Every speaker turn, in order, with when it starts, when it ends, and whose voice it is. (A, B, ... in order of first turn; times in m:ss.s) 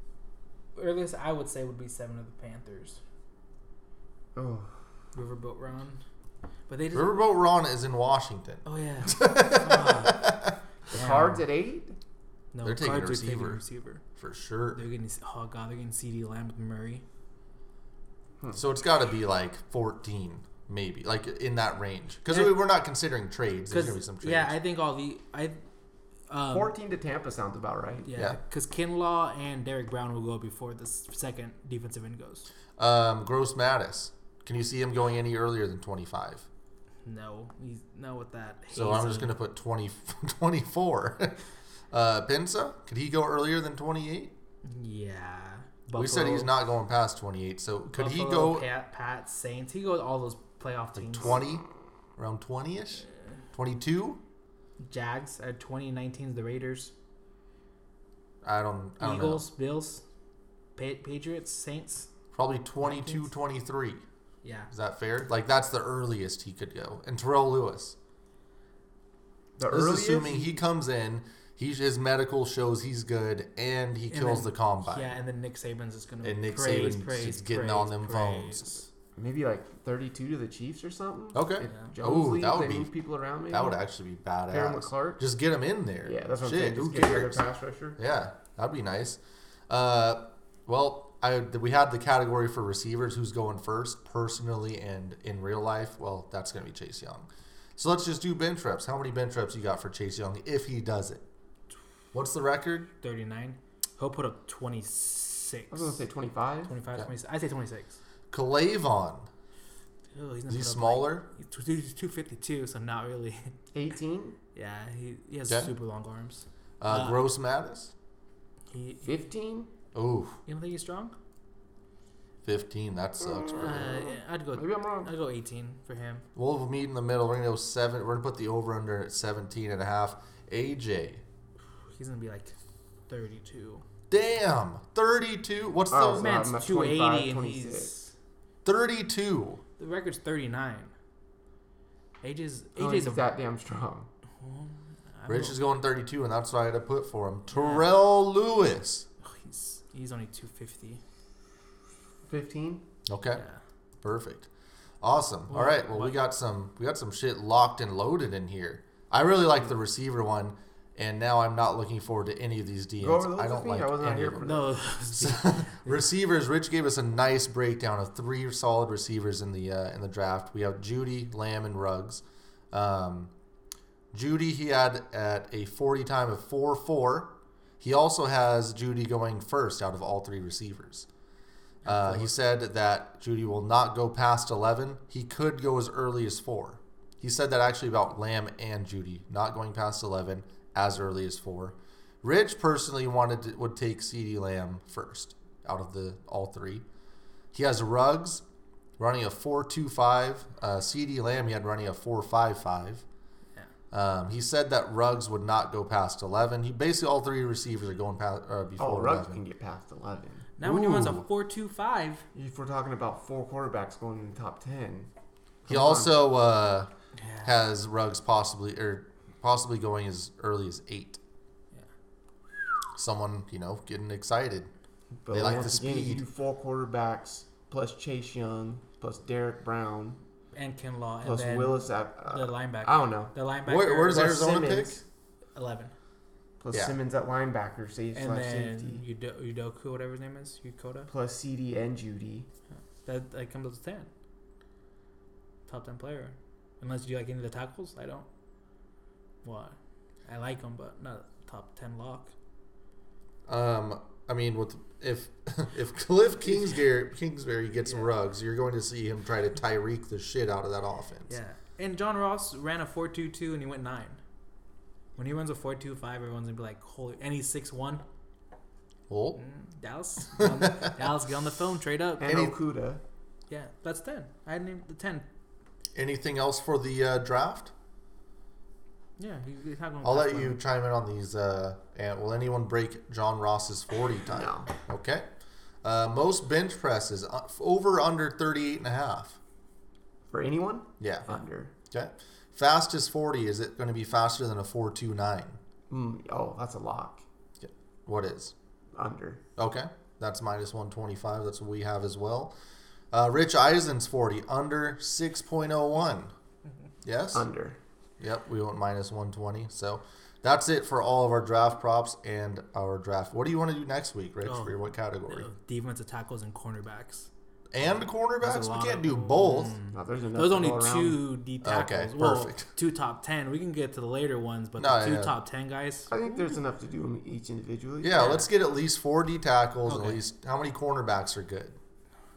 0:00.7-0:03.0 A
0:04.4-0:04.8 B
0:05.1-0:06.0 A
0:06.7-0:07.2 A
0:06.9-0:10.6 C
0:08.6-0:10.3 A
0:10.9-0:12.0 B
0:10.9-0:11.4 A
0:12.5-0:14.0 A
0:12.6-0:13.6 C
0:14.2-0:14.8 C
0:14.7-0:17.0 A
0:18.5-0:24.5 C
0:22.3-0:22.6 A
0:23.7-0:25.6 A
0:26.3-0:26.7 A
0:26.5-0:28.2 B
0:28.0-0:32.5 A
0:28.1-0:28.4 C
0:32.8-0:36.4 C
0:37.0-0:39.3 A
0:38.7-0:41.4 C
0:41.9-0:44.3 C
0:44.6-0:46.5 A
0:45.9-0:48.6 C
0:47.9-0:51.4 A
0:50.9-0:51.6 C
0:52.2-0:54.2 C
0:54.8-0:56.9 A
0:58.4-0:59.4 C
0:59.0-1:00.0 A
1:00.8-1:02.1 A
1:02.3-1:04.0 C
1:02.8-1:03.3 A
1:04.4-1:04.7 A
1:04.7-1:08.0 C
1:09.6-1:10.6 B
1:09.7-1:15.1 C
1:14.1-1:18.9 A
1:16.2-1:18.7 C
1:19.2-1:23.8 B
1:21.3-1:22.9 C
1:23.5-1:27.4 C
1:24.5-1:25.2 B
1:26.0-1:28.0 B
1:28.0-1:41.2 C
1:42.1-1:42.9 C
1:43.0-1:45.9 A
1:45.7-1:46.7 B
1:46.7-1:48.0 A
1:48.3-1:49.3 C
1:50.1-1:53.5 A
1:50.5-1:51.3 C
1:53.7-1:54.4 B
1:54.5-1:57.2 A
1:56.8-1:57.9 C
1:58.7-1:59.1 A
1:59.0-1:59.7 B
1:59.9-2:00.4 C
2:00.4-2:01.2 A
2:02.4-2:03.9 C
2:03.2-2:05.1 B
2:03.6-2:06.2 A
2:06.3-2:11.2 C
2:11.9-2:12.6 A
2:13.1-2:13.8 A
2:14.1-2:16.3 C
2:15.9-2:17.9 B
2:16.2-2:18.1 A
2:18.6-2:19.6 C
2:19.8-2:20.9 A
2:22.2-2:23.2 A
2:22.8-2:24.1 B
2:24.4-2:25.6 A
2:25.3-2:29.1 C
2:27.5-2:27.8 A
2:29.2-2:31.0 A
2:32.3-2:32.8 B
2:33.0-2:33.4 C
2:34.0-2:34.5 C
2:35.0-2:44.4 C
2:35.5-2:36.1 A
2:43.0-2:44.7 B
2:44.4-2:46.0 A
2:45.2-2:53.3 C
2:54.1-3:01.1 C
3:01.8-3:02.3 A
3:01.8-3:16.8 C
3:17.5-3:18.4 C
3:19.0-3:23.0 C
3:23.9-3:29.4 C
3:28.8-3:30.5 B
3:30.6-3:32.2 A
3:30.6-3:31.2 C
3:32.3-3:35.1 B
3:35.6-3:36.1 B
3:35.7-3:36.9 C
3:37.2-3:37.5 A
3:37.4-3:41.2 C
3:42.9-3:44.7 C
3:45.2-3:50.2 B
3:45.3-3:46.2 C
3:50.5-3:54.5 A
3:51.2-3:53.3 B
3:53.6-3:55.0 C
3:54.1-3:55.0 B
3:55.5-3:55.9 A
3:56.6-3:59.0 B
3:56.7-3:57.0 C
3:58.1-4:01.1 A
4:01.1-4:02.5 B
4:03.0-4:04.1 A
4:05.7-4:08.2 A
4:09.4-4:12.3 A
4:13.5-4:21.4 C
4:17.8-4:18.1 A
4:21.3-4:24.2 A
4:25.2-4:28.0 A
4:29.1-4:29.4 C
4:29.4-4:32.3 A
4:30.4-4:30.9 C
4:32.2-4:33.0 B
4:32.2-4:32.5 C
4:33.5-4:35.2 A
4:35.9-4:37.7 C
4:39.2-4:40.6 A
4:40.0-4:45.3 C
4:44.3-4:44.7 B
4:45.8-4:49.4 C
4:50.3-4:51.7 B
4:51.0-4:55.6 C
4:55.9-4:57.2 B
4:57.6-4:58.5 C
4:58.9-4:59.4 B
4:59.6-5:02.5 C
5:03.1-5:06.3 C
5:07.0-5:07.4 C
5:07.3-5:07.8 B
5:08.2-5:15.5 C
5:14.4-5:17.3 A
5:17.7-5:19.8 C
5:18.4-5:26.2 A
5:19.9-5:21.2 B
5:21.6-5:22.7 C
5:24.8-5:25.3 C
5:26.1-5:28.4 B
5:28.0-5:31.8 C
5:28.2-5:28.4 A
5:29.8-5:30.2 A